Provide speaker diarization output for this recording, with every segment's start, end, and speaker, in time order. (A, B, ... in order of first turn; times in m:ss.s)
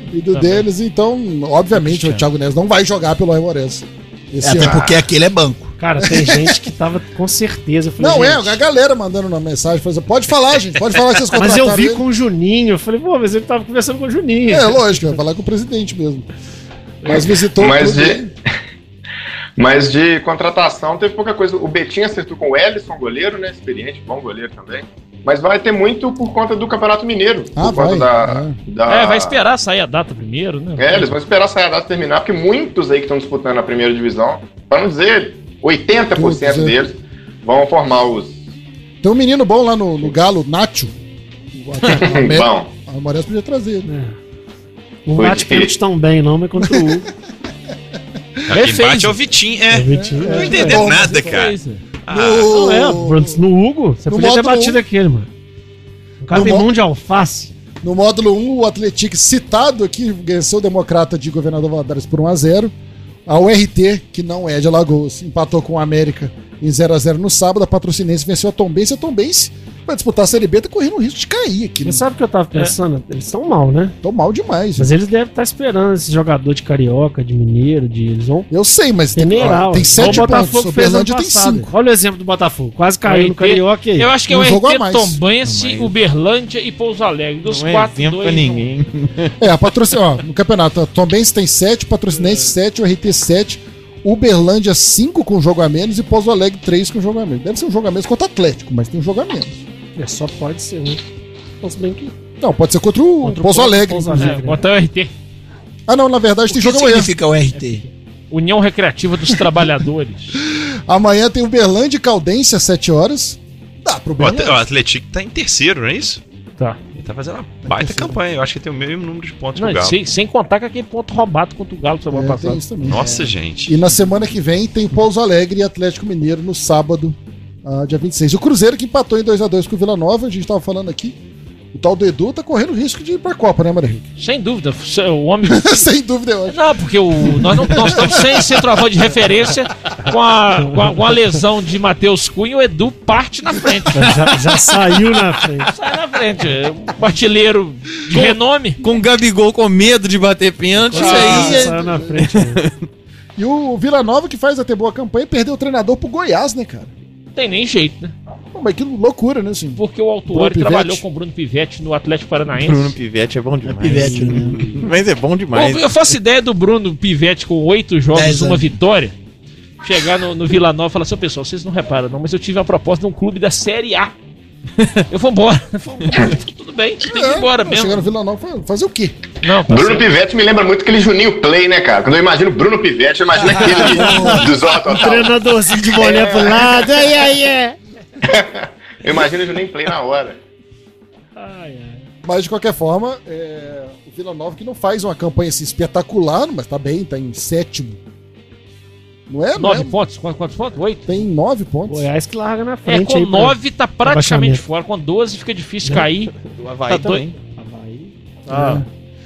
0:00.1-0:04.9 A
0:00.3-0:00.6 B
0:04.4-0:05.7 C
0:04.6-0:05.0 D
0:05.8-0:08.6 E
0:06.0-0:06.6 A
0:08.0-0:12.0 A
0:11.3-0:14.8 E
0:14.5-0:16.3 A
0:17.0-0:18.3 A
0:17.6-0:18.2 D
0:19.6-0:29.4 D
0:27.6-0:28.5 A
0:28.9-0:31.2 B
0:30.8-0:38.4 D
0:36.1-0:36.8 A
0:39.0-0:40.9 A
0:41.5-0:43.9 A
0:41.9-0:42.7 D
0:43.8-0:44.2 E
0:45.0-0:47.1 E
0:45.2-0:45.7 D
0:46.6-0:47.0 A
0:48.5-0:52.5 F
0:48.5-0:49.2 B
0:49.7-0:50.8 E
0:49.9-0:51.4 A
0:50.4-0:51.8 B
0:52.1-0:53.4 A
0:52.5-0:55.3 E
0:54.1-0:54.8 A
0:56.2-0:57.5 E
0:56.3-0:56.7 A
0:57.8-1:02.7 A
1:03.3-1:12.0 A
1:11.8-1:14.0 E
1:14.0-1:14.9 A
1:14.8-1:18.5 E
1:18.5-1:21.7 A
1:19.1-1:24.1 E
1:20.0-1:20.5 B
1:23.0-1:28.7 B
1:24.3-1:25.2 A
1:25.4-1:25.9 G
1:27.4-1:29.3 G
1:29.4-1:39.6 A
1:40.0-1:41.0 E
1:41.6-1:42.1 E
1:42.4-1:44.4 A
1:43.2-1:44.6 E
1:44.2-1:45.1 B
1:45.9-1:47.1 A
1:46.5-1:47.8 C
1:47.5-1:47.8 B
1:48.3-1:50.4 B
1:50.4-1:54.6 A
1:54.2-1:56.2 F
1:56.9-2:00.0 F
1:57.6-1:58.2 A
1:59.6-2:02.6 B
2:02.1-2:03.1 A
2:02.8-2:03.8 F
2:03.0-2:03.2 C
2:03.7-2:11.2 A
2:11.7-2:14.1 A
2:14.2-2:15.9 B
2:15.4-2:16.6 A
2:16.5-2:24.3 B
2:17.2-2:18.7 A
2:23.9-2:25.7 E
2:25.6-2:28.8 B
2:28.8-2:32.8 G
2:30.8-2:32.6 E
2:30.9-2:32.2 A
2:33.4-2:36.9 A
2:37.3-2:38.1 B
2:38.5-2:41.0 A
2:39.8-2:43.0 B
2:42.5-2:45.9 G
2:43.6-2:44.7 C
2:45.5-2:49.1 B
2:48.1-2:48.7 C
2:49.8-2:54.1 B
2:55.1-2:58.1 B
2:57.0-2:59.2 A
2:59.4-3:00.1 B
2:59.7-3:05.4 D
3:03.6-3:07.8 E
3:04.0-3:04.2 C
3:05.9-3:07.0 D
3:08.2-3:10.4 D
3:11.4-3:12.0 E
3:12.2-3:18.0 A
3:19.3-3:19.9 A
3:19.6-3:21.0 B
3:21.1-3:22.0 A
3:21.9-3:24.6 E
3:22.8-3:26.3 B
3:26.4-3:27.4 G
3:26.9-3:27.2 B
3:26.9-3:28.1 E
3:28.5-3:28.8 B
3:28.5-3:28.8 A